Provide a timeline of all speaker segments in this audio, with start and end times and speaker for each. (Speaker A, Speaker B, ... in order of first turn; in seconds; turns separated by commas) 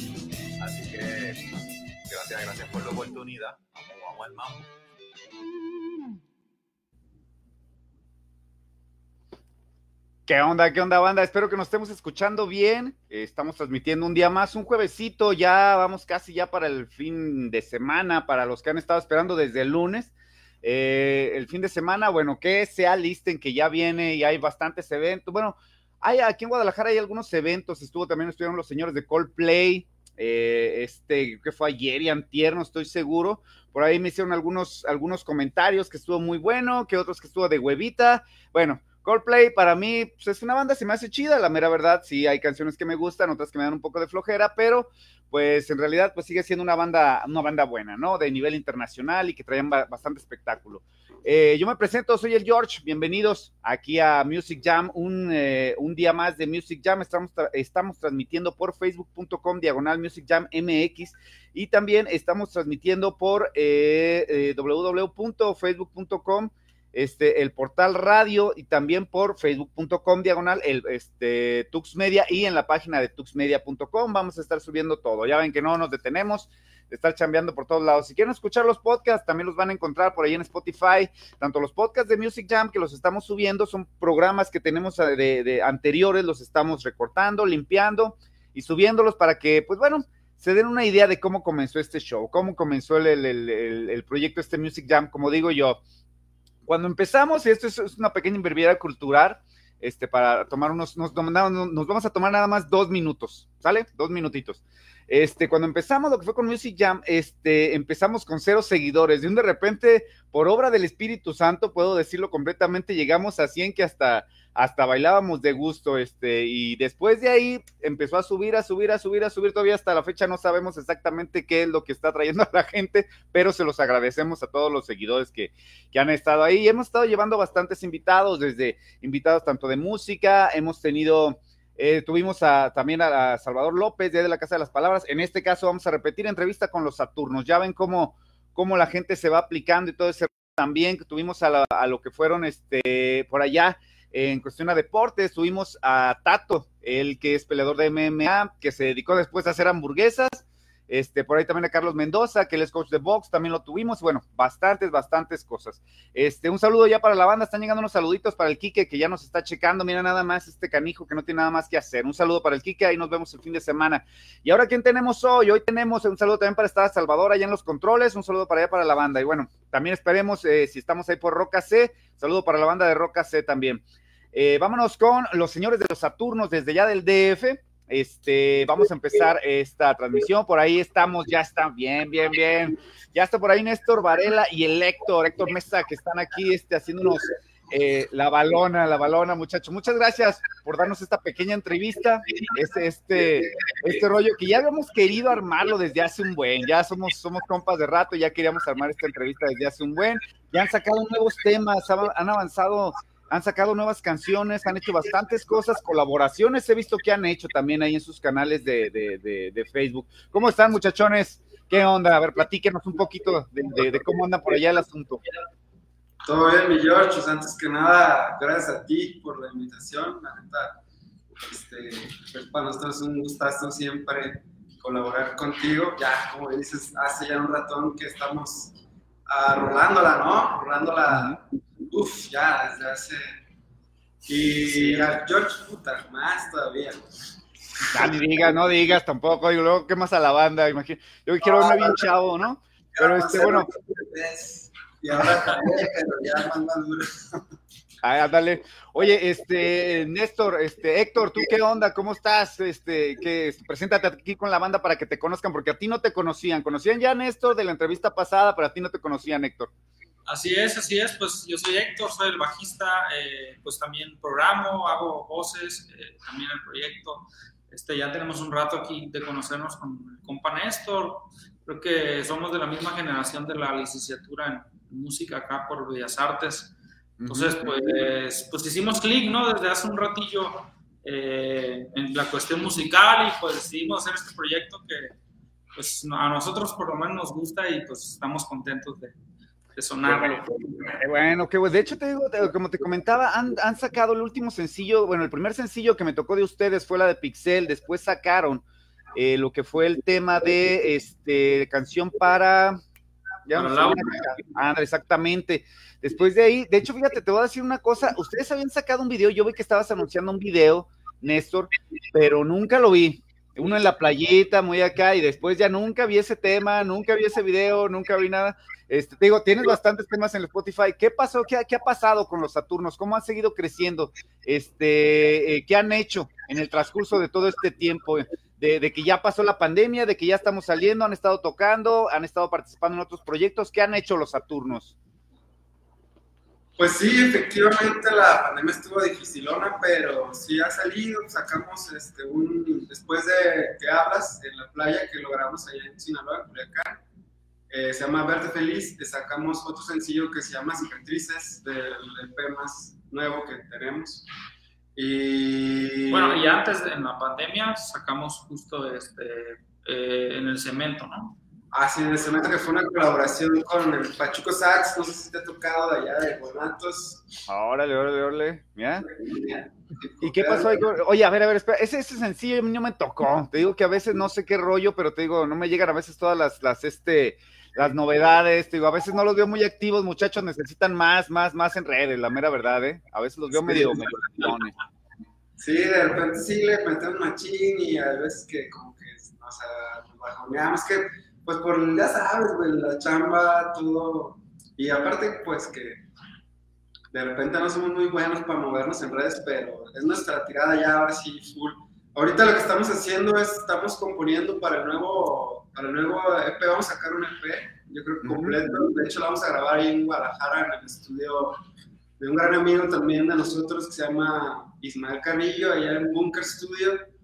Speaker A: 0.6-1.4, Speaker A: 2.1-4.6, Speaker B: 10.3-95.8, Speaker B: 96.6-173.8, Speaker B: 174.3-215.2, Speaker C: 216.2-220.8, Speaker C: 221.3-228.7, Speaker C: 229.3-233.4, Speaker B: 231.1-231.4, Speaker C: 234.2-237.0, Speaker B: 237.9-243.7, Speaker C: 241.6-241.9, Speaker C: 243.0-247.4, Speaker B: 248.0-259.7, Speaker D: 260.3-276.7, Speaker B: 277.2-277.6, Speaker D: 277.3-285.1, Speaker D: 285.7-289.1, Speaker D: 289.7-290.9, Speaker B: 290.0-298.6, Speaker B: 299.1-302.8, Speaker B: 303.4-334.9, Speaker D: 303.5-304.2, Speaker C: 336.8-347.0, Speaker C: 347.7-354.3, Speaker C: 354.9-356.4, Speaker D: 356.1-361.4, Speaker C: 361.7-367.4, Speaker B: 367.5-369.1, Speaker C: 369.3-370.8, Speaker B: 370.2-384.7, Speaker C: 383.6-384.5, Speaker C: 385.6-396.0, Speaker C: 397.1-411.6, Speaker B: 408.2-408.6, Speaker C: 412.2-417.0